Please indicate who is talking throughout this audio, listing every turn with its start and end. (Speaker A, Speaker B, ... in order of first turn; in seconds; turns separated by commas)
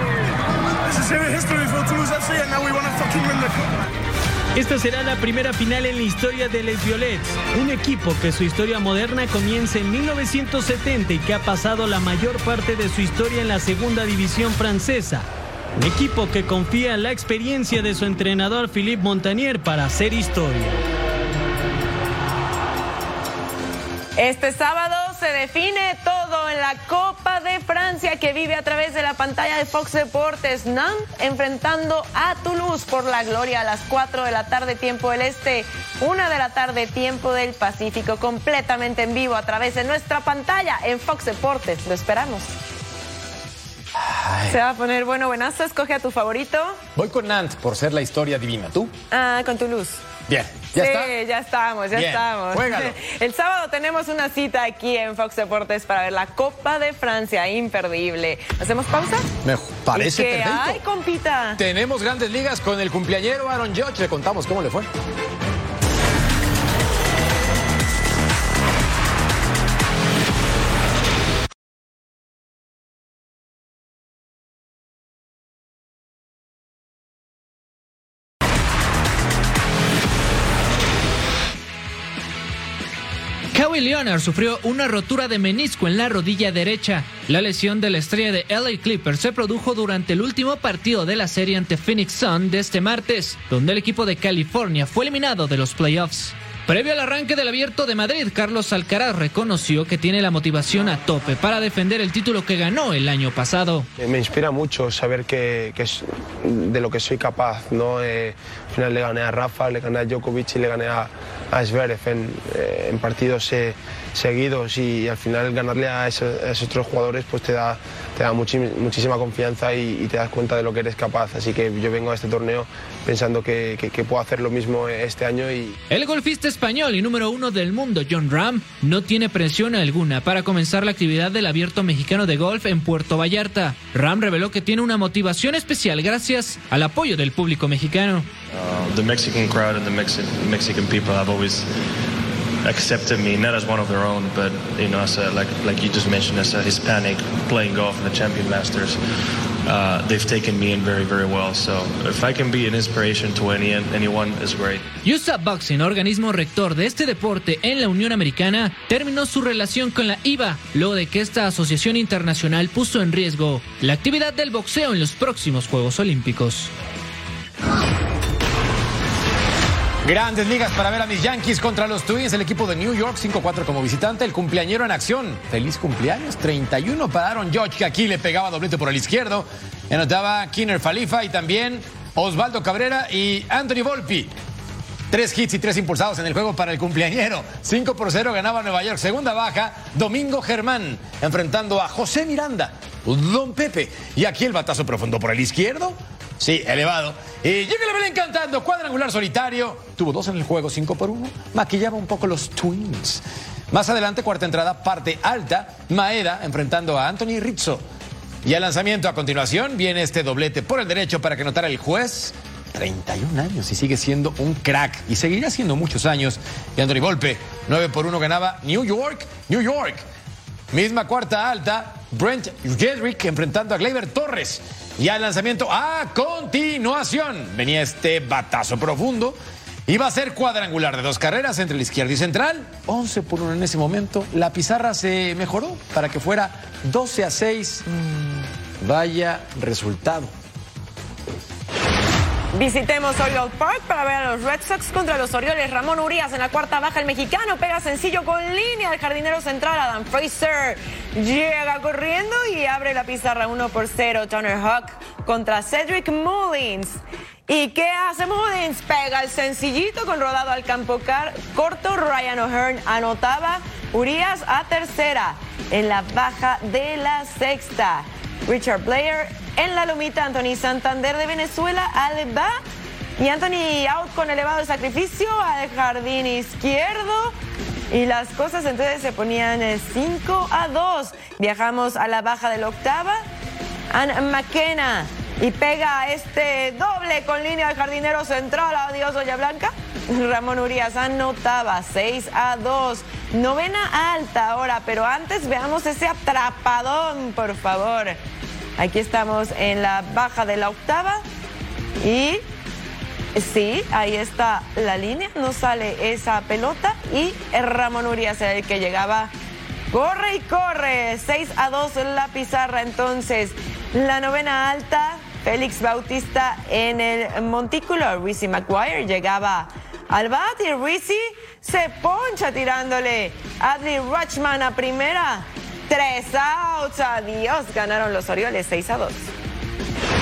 Speaker A: 0.8-3.8, Speaker B: 4.5-20.8, Speaker C: 24.2-42.5, Speaker D: 44.0-44.5, Speaker C: 44.5-46.8, Speaker D: 47.0-48.9, Speaker C: 49.1-50.0, Speaker D: 50.3-51.1, Speaker C: 50.7-59.3, Speaker D: 51.9-52.9, Speaker D: 59.4-60.8, Speaker C: 59.9-61.6, Speaker D: 61.6-64.9, Speaker E: 83.5-103.9, Speaker F: 104.0-125.8, Speaker E: 125.9-138.3, Speaker G: 138.5-141.7, Speaker G: 142.6-149.0, Speaker G: 149.6-154.9, Speaker E: 155.1-166.7, Speaker D: 170.0-184.3, Speaker D: 185.1-207.8, Speaker D: 208.4-220.1, Speaker D: 220.7-237.8, Speaker D: 238.8-240.3, Speaker C: 242.5-272.6, Speaker C: 273.2-277.3, Speaker C: 277.9-283.2, Speaker C: 283.9-298.2, Speaker C: 298.8-301.2, Speaker C: 302.0-302.4, Speaker C: 303.3-309.3, Speaker C: 309.9-329.3